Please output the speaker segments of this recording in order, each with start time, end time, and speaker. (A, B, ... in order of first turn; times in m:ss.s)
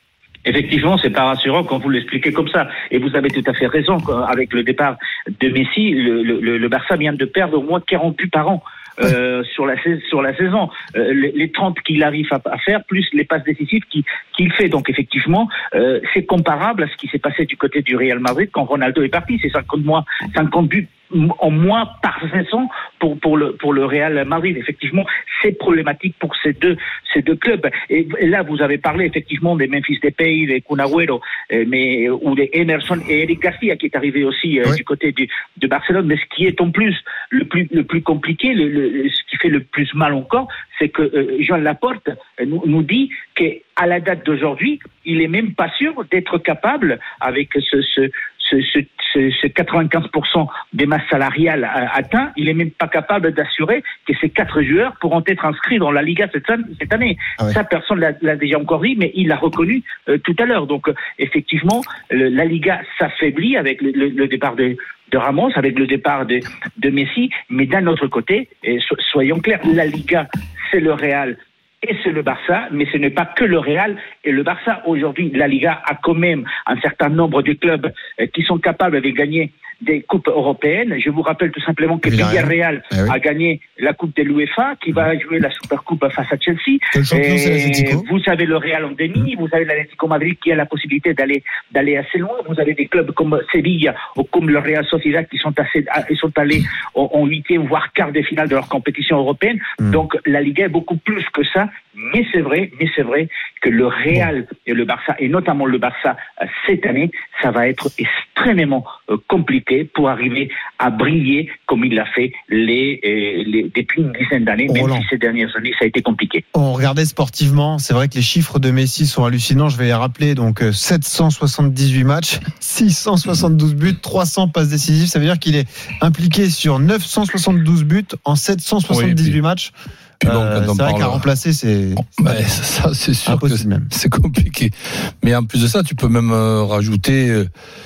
0:00.4-1:56.4 A
1:22.0-1:23.1 B
1:26.9-1:28.1 B
1:54.7-1:55.0 B
1:56.5-2:09.7 B
2:08.9-2:09.4 C
2:10.2-2:11.2 C
2:10.2-2:12.6 B
2:12.1-2:17.5 C
2:13.2-2:13.9 B